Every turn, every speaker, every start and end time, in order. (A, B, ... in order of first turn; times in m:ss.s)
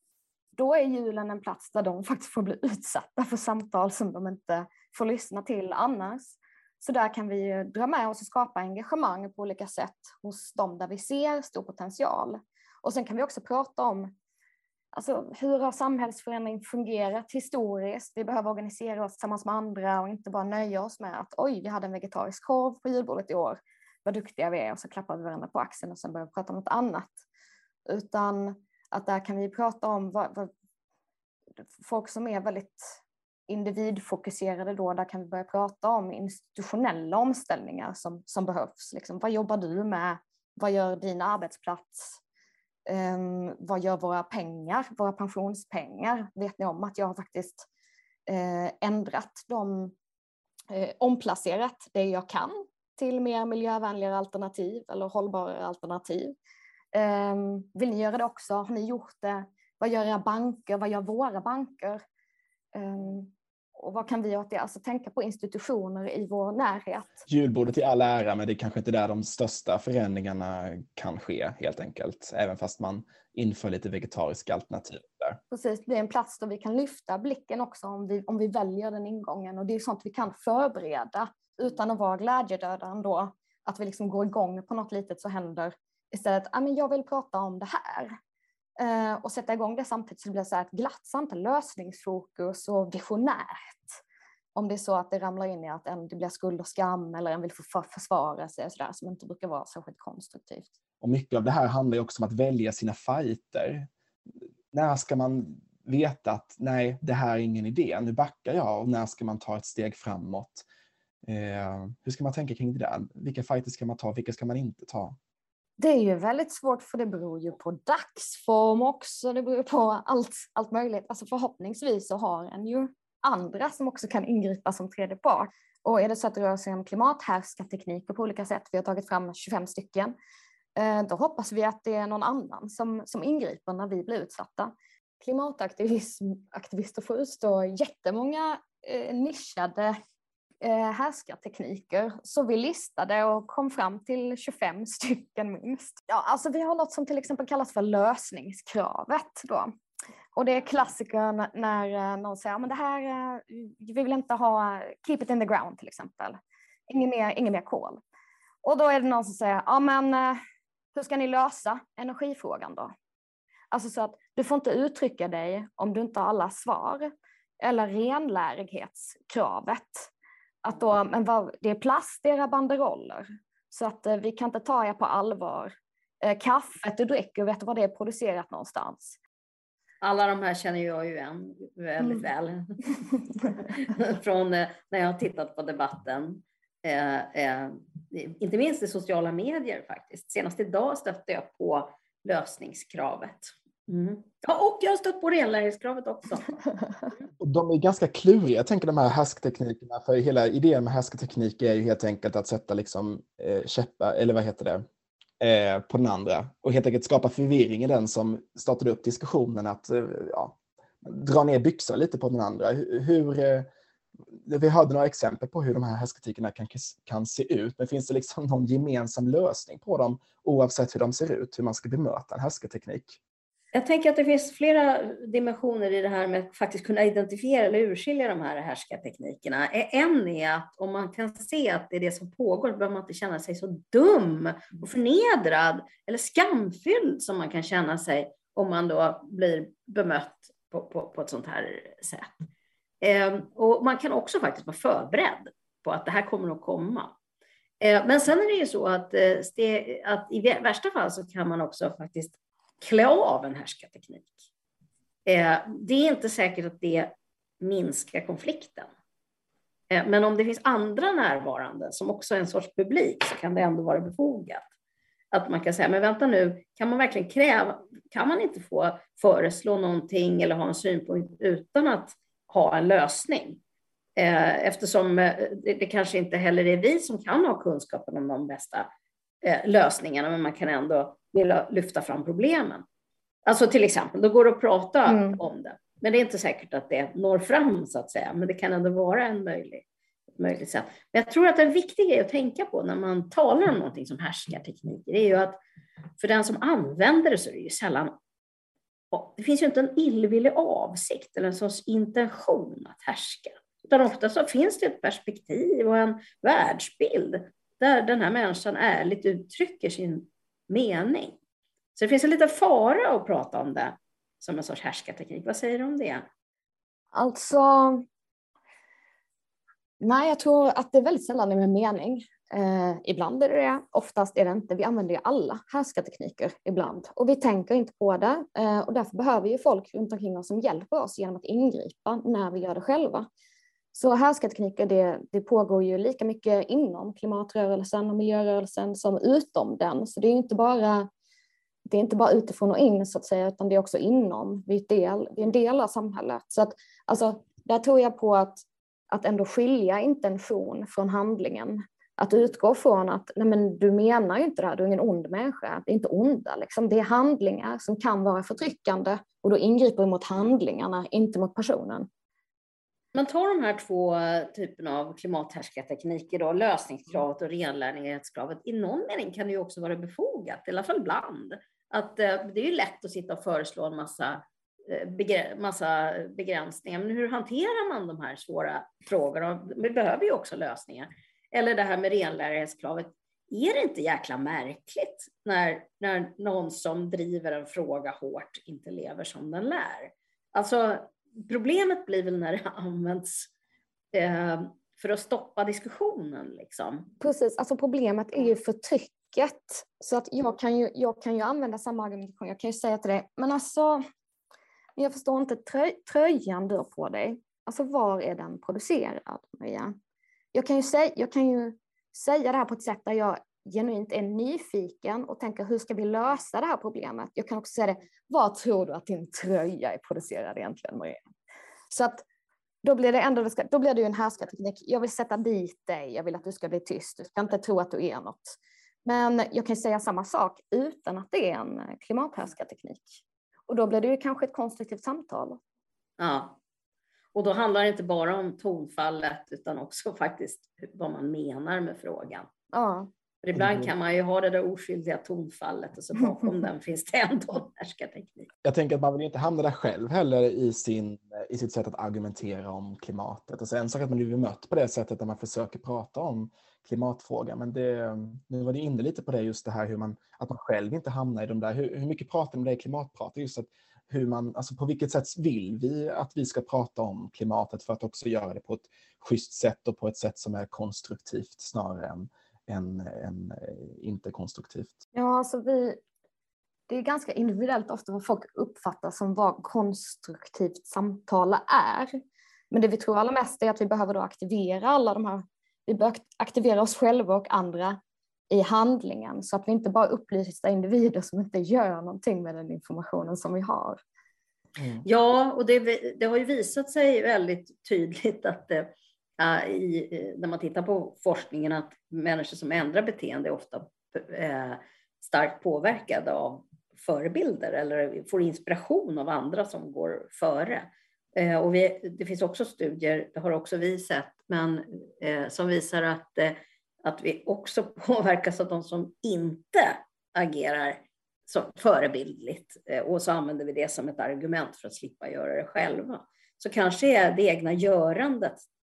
0:00.6-0:14.1 A
0:14.9-0:27.2 A
0:27.8-0:30.5 A
0:31.8-0:42.2 A
0:42.8-0:47.7 A
0:48.2-0:49.9 A
0:50.7-0:56.4 A
0:56.9-1:02.0 A
1:02.7-1:07.2 A
1:07.3-1:15.4 B
1:15.5-1:28.2 A
1:28.8-1:34.0 A
1:34.5-1:40.7 A
1:41.0-1:43.9 B
1:44.7-1:50.6 B
1:51.2-1:55.2 B
1:55.8-2:10.1 A
2:10.8-2:20.0 A
2:20.6-2:29.7 A
2:30.3-2:36.4 A
2:36.9-2:38.0 A
2:38.6-2:40.4 A
2:40.9-2:42.9 A
2:43.7-2:50.1 A
2:50.6-2:59.2 A
3:00.0-3:16.6 C
3:17.4-3:24.8 B
3:25.4-3:33.7 B
3:34.4-3:43.2 B
3:43.7-4:02.4 C
4:03.0-4:07.1 C
4:07.8-4:14.4 C
4:15.2-4:18.9 C
4:19.9-4:24.7 C
4:25.3-4:33.6 C
4:34.2-4:38.9 C
4:39.4-4:42.8 C
4:43.4-4:49.8 C
4:45.1-4:45.4 A
4:50.4-4:55.6 C
4:56.2-4:58.1 C
4:59.1-5:11.4 C
5:11.9-5:16.2 C
5:17.1-5:18.0 A
5:20.0-5:33.2 A
5:33.9-5:41.1 A
5:41.8-6:02.1 A
6:03.1-6:33.5 C
6:34.1-6:37.1 C
6:37.2-6:44.0 A
6:45.0-6:49.9 A
6:50.5-7:01.2 A
7:01.9-7:02.2 A
7:02.8-7:15.6 A
7:16.2-7:16.6 C
7:17.3-7:22.5 C
7:22.7-7:23.1 A
7:23.4-7:28.5 C
7:23.5-7:23.9 B
7:28.6-7:55.0 B
7:55.1-7:56.0 A
7:56.9-8:02.1 A
8:02.7-8:08.0 A
8:08.5-8:14.0 A
8:14.8-8:15.0 B
8:15.0-8:48.6 C